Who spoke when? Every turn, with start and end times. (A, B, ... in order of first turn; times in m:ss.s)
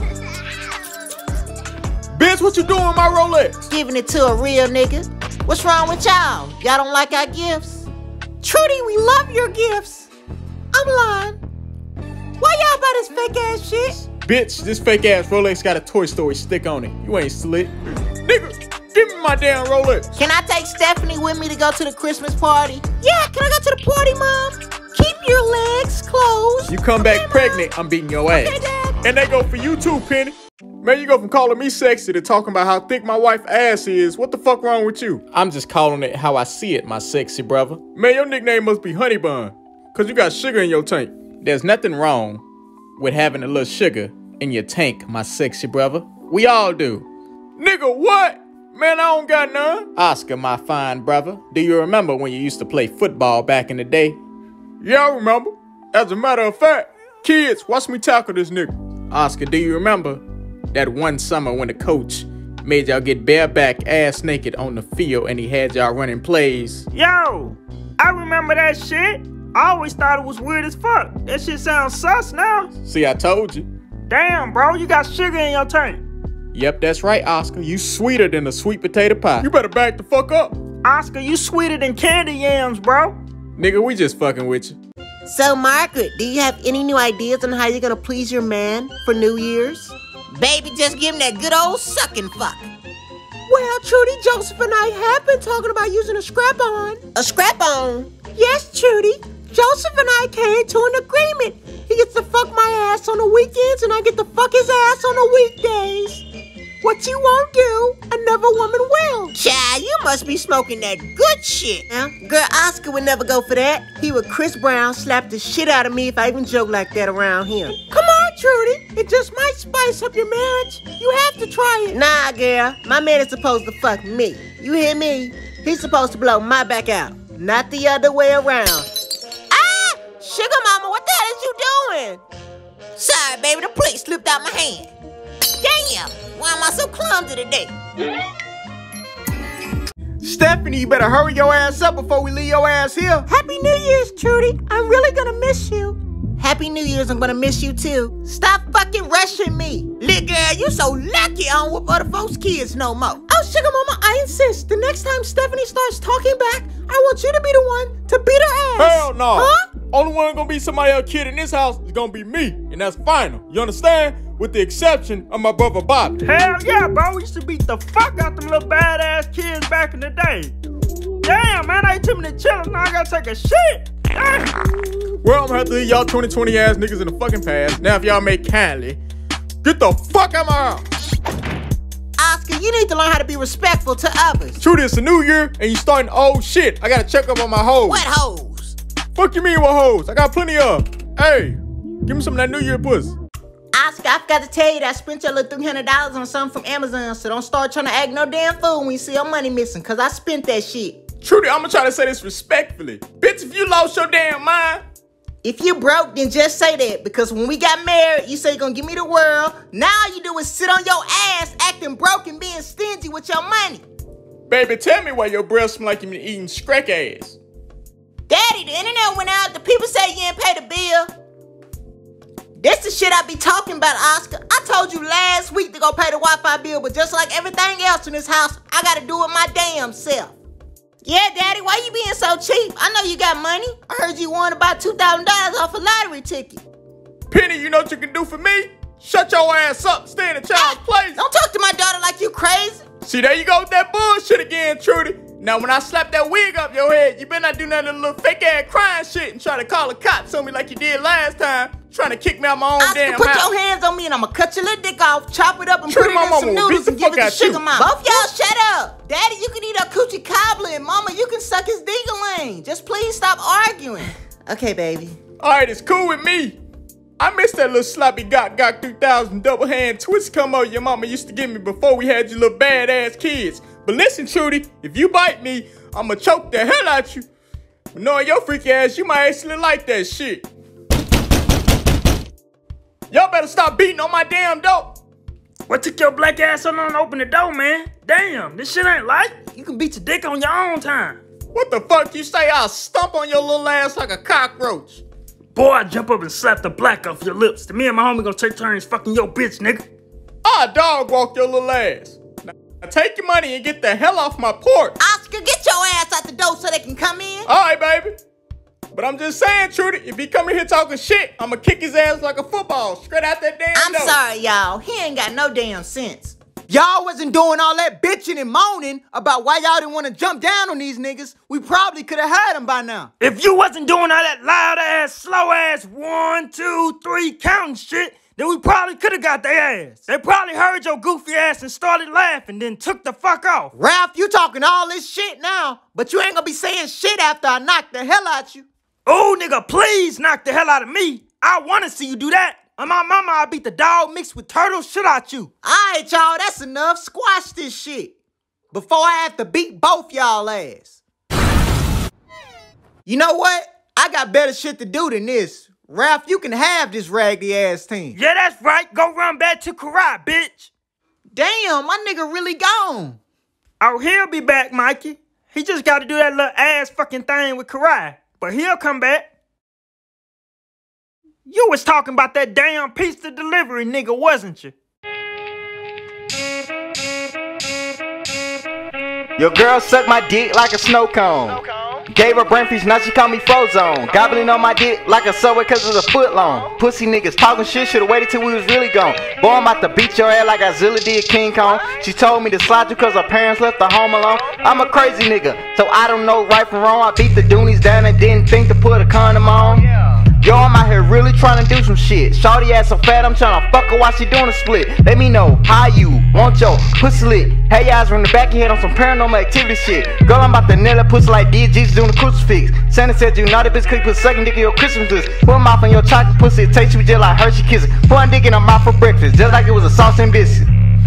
0:02.1-0:03.6 A
0:03.7-0:07.9 B
0:08.4-0:10.1 B
0:10.7-0:11.4 B
0:12.4-0:14.0 B
0:14.2-0:20.1 A
0:20.2-0:27.6 B
0:26.7-0:42.4 A
0:28.3-0:29.0 B
0:43.0-0:54.2 A
0:54.8-1:06.9 A
1:06.9-1:12.7 C
1:12.8-1:13.7 A
1:14.1-1:16.0 C
1:16.5-1:20.6 A
1:20.8-1:23.2 C
1:23.6-1:24.8 A
1:25.2-1:32.7 B
1:33.5-1:46.2 B
1:46.8-2:08.9 B
2:09.5-2:12.2 B
2:13.0-2:14.9 B
2:15.6-2:17.7 B
2:22.0-2:23.1 D
2:23.3-2:39.6 B
2:38.8-2:46.2 A
2:46.2-2:50.5 C
2:51.2-2:54.6 C
2:55.2-2:59.0 A
2:59.6-3:00.8 A
3:02.2-3:04.6 B
3:04.6-3:08.1 A
3:07.9-3:08.8 B
3:09.2-3:13.2 A
3:13.7-3:21.0 B
3:21.2-3:24.8 A
3:25.4-3:33.8 B
3:34.5-3:37.4 A
3:38.3-3:41.1 B
3:42.6-3:50.4 B
3:51.0-3:56.6 B
3:57.3-4:01.2 A
4:00.6-4:02.8 B
4:03.0-4:13.5 A
4:12.8-4:25.2 B
4:15.9-4:17.9 A
4:25.4-4:26.6 A
4:27.2-4:37.3 A
4:37.9-4:40.5 A
4:43.1-4:45.0 A
4:45.7-4:51.2 C
4:51.5-4:55.0 A
4:55.5-4:59.9 C
5:00.4-5:05.0 A
5:05.0-5:07.5 B
5:07.5-5:08.2 A
5:08.9-5:14.2 A
5:13.8-5:16.4 B
5:18.4-5:23.1 B
5:23.2-5:33.7 C
5:33.8-5:38.6 B
5:39.1-5:45.5 C
5:45.6-5:48.1 B
5:48.7-5:51.0 B
5:53.1-5:58.2 B
5:58.1-6:00.7 C
6:01.3-6:03.2 B
6:03.8-6:09.3 C
6:11.5-6:14.7 C
6:19.4-7:00.7 D